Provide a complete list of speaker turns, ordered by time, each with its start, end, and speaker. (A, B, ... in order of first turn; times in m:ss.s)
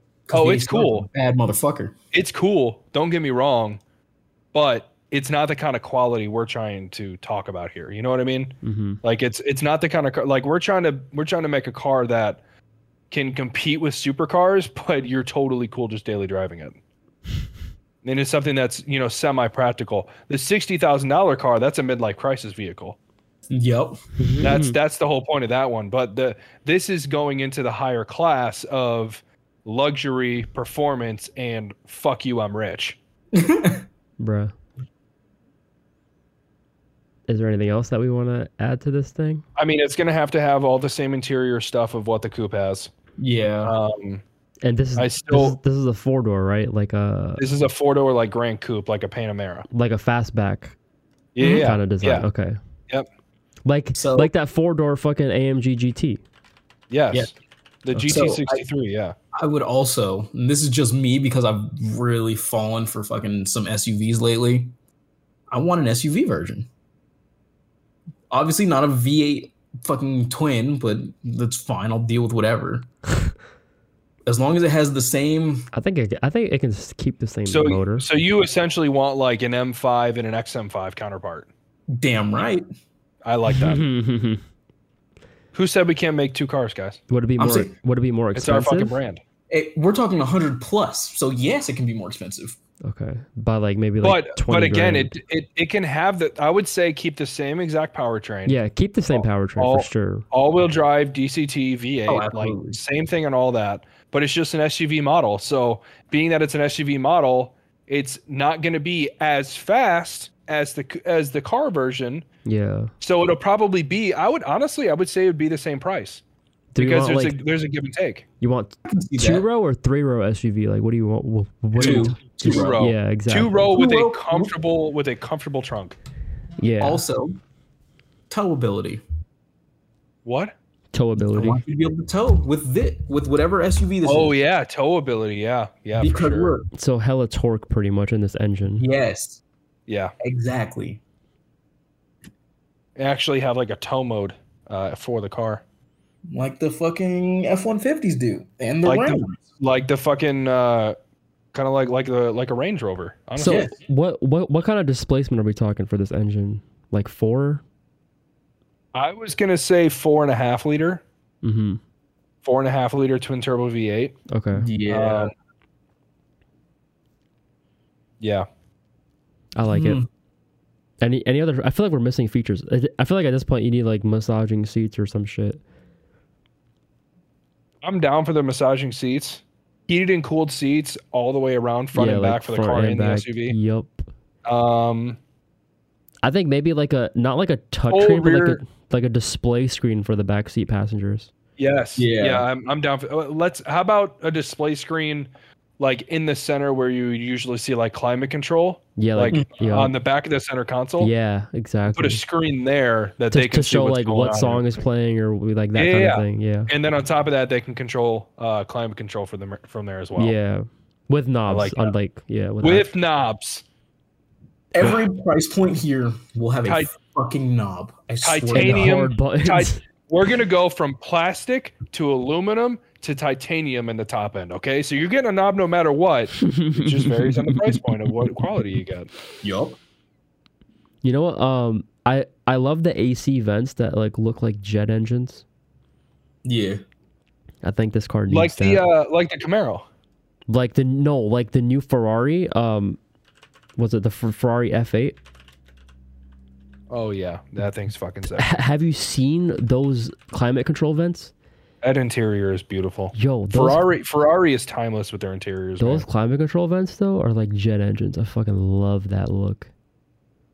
0:00.3-0:02.0 A
0:00.3-0:01.1 B
0:02.1-0:03.8 B
0:04.5-0:12.4 B
0:08.6-0:09.0 C
0:13.1-0:16.8 B
0:18.0-0:23.0 B
0:23.5-0:24.0 A
0:24.2-0:24.8 C
0:24.4-0:33.0 B
0:33.3-0:33.8 A
0:34.2-0:34.5 C
0:37.3-0:39.4 C
0:39.6-0:42.9 B
0:43.2-0:43.8 A
0:43.6-0:44.2 B
0:44.6-0:47.4 C
0:45.0-0:45.6 B
0:47.4-0:49.7 B
0:49.7-0:50.8 C
0:51.4-0:52.3 B
0:51.4-0:52.6 C
0:53.6-0:56.2 C
0:54.0-0:54.3 A
0:56.9-0:57.3 B
0:57.8-0:59.2 B
0:58.1-0:58.6 A
0:59.4-1:04.7 A
1:05.5-1:06.7 A
1:08.3-1:12.9 A
1:14.3-1:15.7 A
1:15.7-1:18.1 C
1:17.5-1:21.5 B
1:22.0-1:22.6 A
1:23.2-1:23.8 B
1:23.5-1:24.4 C
1:25.5-1:27.0 B
1:27.1-1:29.0 C
1:27.4-1:27.7 A
1:28.4-1:29.2 B
1:29.5-1:32.6 A
1:32.8-1:35.1 C
1:34.0-1:38.6 B
1:38.5-1:40.3 C
1:39.1-1:52.2 B
1:42.1-1:42.8 A
1:52.4-1:52.9 C
1:53.0-1:56.2 B
1:56.7-1:57.4 C
1:56.8-1:58.3 B
1:58.4-2:03.7 C
1:58.8-1:59.4 A
2:01.8-2:06.0 B
2:01.8-2:02.8 A
2:03.6-2:04.5 A
2:06.6-2:07.0 C
2:06.8-2:07.4 A
2:08.3-2:09.0 A
2:10.2-2:10.5 B
2:10.9-2:11.6 C
2:11.2-2:14.4 A
2:14.0-2:16.6 B
2:16.0-2:16.7 A
2:16.7-2:18.8 C
2:18.8-2:19.4 A
2:19.9-2:20.1 B
2:20.2-2:21.0 A
2:23.0-2:25.6 B
2:26.3-2:29.4 A
2:28.8-2:31.0 B
2:31.5-2:33.7 B
2:33.4-2:33.7 A
2:33.4-2:37.6 C
2:39.0-2:41.0 B
2:41.4-2:41.8 C
2:42.4-2:44.2 B
2:44.3-2:44.7 C
2:44.5-2:45.3 A
2:44.9-2:45.3 B
2:48.2-2:48.5 B
2:49.6-2:50.0 C
2:49.7-2:50.1 A
2:51.0-2:55.6 C
2:57.8-3:03.6 B
3:01.9-3:04.1 C
3:04.5-3:05.2 B
3:06.2-3:11.3 C
3:07.9-3:08.6 B
3:11.6-3:21.1 B
3:12.0-3:12.5 A
3:19.0-3:19.9 C
3:21.0-3:22.2 C
3:21.9-3:24.8 B
3:23.3-3:26.7 C
3:25.8-3:30.4 B
3:30.2-3:32.9 C
3:31.5-3:31.9 B
3:32.6-3:33.6 B
3:34.7-3:39.0 A
3:36.7-3:36.9 B
3:38.2-3:49.1 B
3:38.5-3:39.8 C
3:46.4-3:48.1 C
3:49.4-3:49.8 A
3:51.0-3:55.4 C
3:56.4-3:56.8 A
3:57.6-3:58.8 C
3:58.3-3:59.9 B
4:00.5-4:03.0 C
4:03.8-4:05.2 C
4:06.9-4:08.5 B
4:08.4-4:11.3 C
4:11.8-4:16.1 B
4:13.1-4:13.8 C
4:15.8-4:19.7 C